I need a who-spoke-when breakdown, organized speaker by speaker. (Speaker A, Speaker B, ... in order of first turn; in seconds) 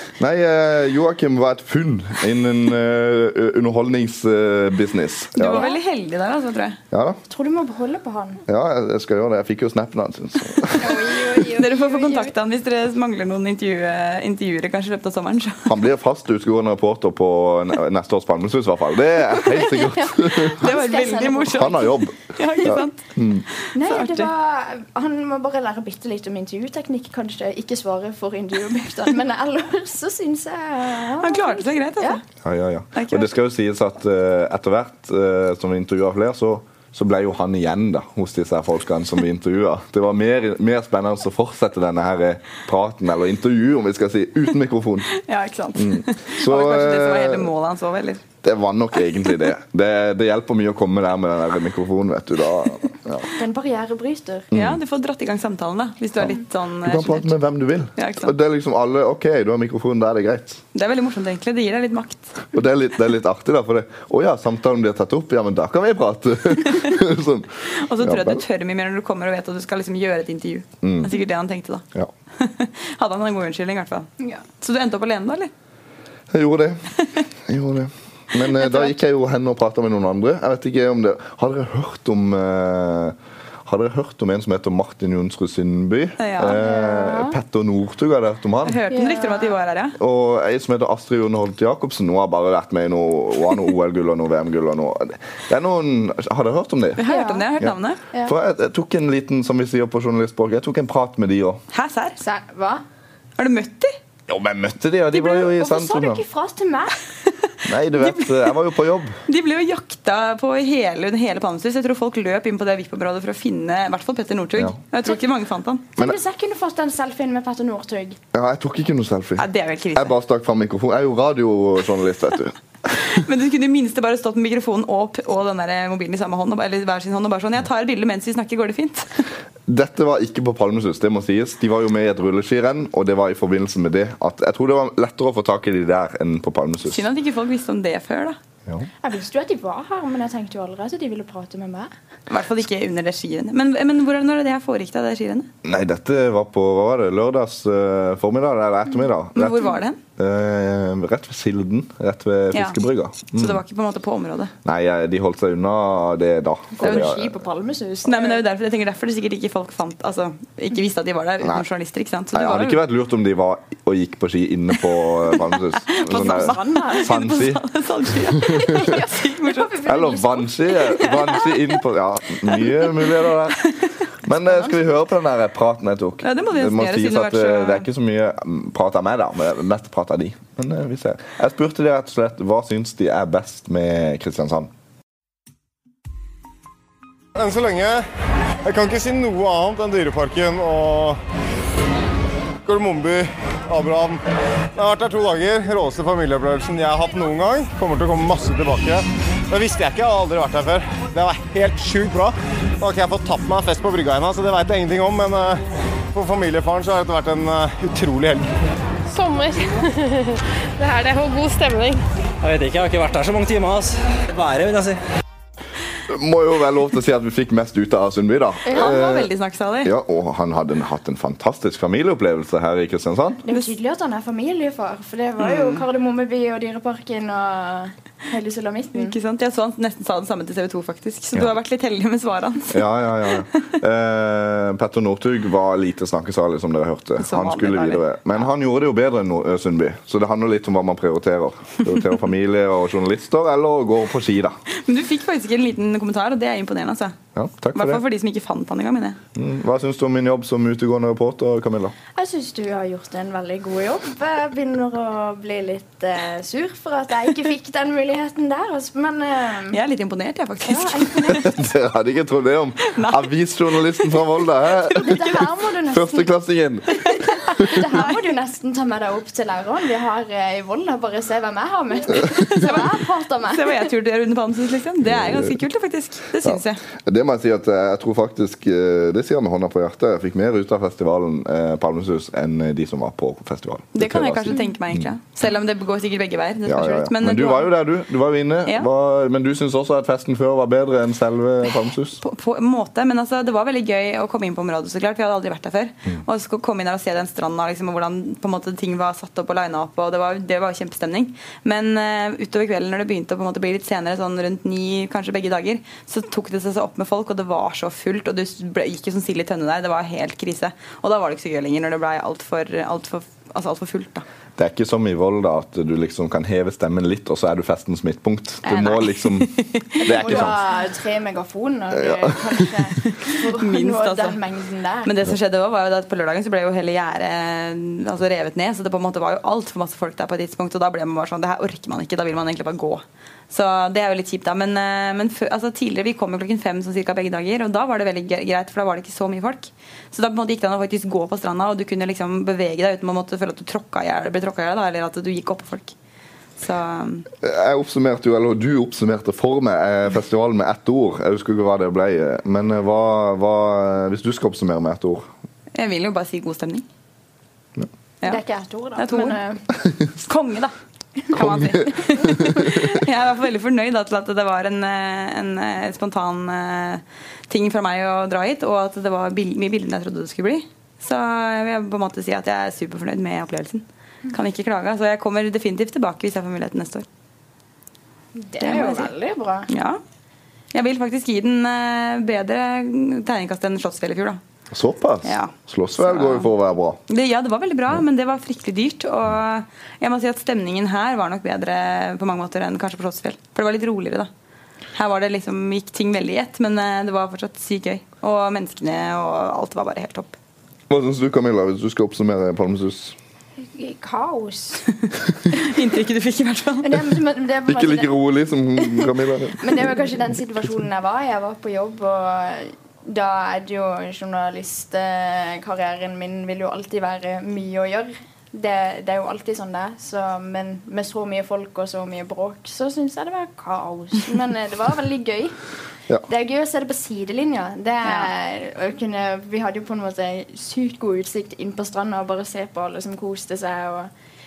Speaker A: 0.2-5.7, 6.9-7.2, 8.5-10.9, 15.7-20.6, 21.5-23.4, 32.4-45.1, 45.8-47.5, 48.4-53.3, 54.5-54.8, 56.8-60.6, 62.5-68.4, 70.8-71.1, 76.3-76.9, 77.4-88.8, 90.0-97.0, 98.2-101.6, 104.3-106.2, 107.7-109.2, 118.3-122.6, 129.7-137.1, 145.6-153.6, 154.7-157.4, 162.3-167.6, 169.8-173.7, 174.2-184.7, 216.1-219.3, 219.8-223.4, 232.7-244.6, 247.3-248.0, 249.4-251.9, 261.3-265.2, 265.9-267.0, 275.0-275.6, 276.4-285.1, 286.7-292.2, 314.6-320.6, 322.0-322.4, 347.4-355.3, 361.4-361.8, 384.7-387.0, 400.9-403.2, 407.7-409.9
Speaker B: 5.4-6.8, 10.8-15.8, 20.3-23.0, 23.5-24.3, 31.2-32.2, 33.0-33.3, 45.1-48.2, 54.5-57.4, 58.0-58.3, 60.7-62.4, 66.7-67.0, 67.7-71.8, 72.4-75.5, 78.6-78.9, 86.2-86.6, 88.7-90.0, 97.0-98.0, 101.7-102.2, 103.4-104.0, 108.0-108.5, 109.3-115.8, 119.4-120.1, 123.0-129.3, 136.8-138.4, 142.3-145.5, 149.3-150.0, 152.5-152.8, 153.3-154.5, 158.1-162.8, 165.9-169.8, 171.0-171.5, 176.2-177.9, 218.7-219.9, 225.4-225.8, 228.9-233.4, 237.2-238.0, 244.7-247.2, 247.8-249.2, 259.7-261.5, 262.8-265.4, 266.9-268.2, 272.1-276.8, 283.9-287.7, 292.2-314.2, 318.7-320.6, 323.1-324.4, 325.1-345.9, 346.6-347.3, 355.8-356.9, 359.0-359.4, 360.2-360.7, 361.3-377.1, 378.6-379.1, 379.7-380.0, 380.7-384.4, 385.2-386.5, 387.1-394.3, 394.9-400.4, 405.5-406.9
Speaker C: 7.3-8.4, 10.8-12.3, 19.5-21.9, 23.7-32.2, 53.3-54.5, 86.5-87.4, 88.9-89.5, 97.1-97.5, 102.2-102.8, 105.1-107.0, 116.0-118.2, 139.0-141.9, 156.8-158.4, 166.1-167.2, 168.6-171.1, 223.4-229.2, 252.2-259.8, 260.6-261.5, 264.9-266.3, 267.6-273.9, 320.1-325.1, 358.2-359.6, 378.4-379.7, 403.7-404.9, 406.8-408.1, 408.8-425.6, 426.3-434.1
Speaker D: 187.4-188.1, 188.6-191.2, 192.7-194.2, 194.8-205.6, 206.1-208.5
Speaker E: 209.1-212.0
Speaker F: 212.4-215.0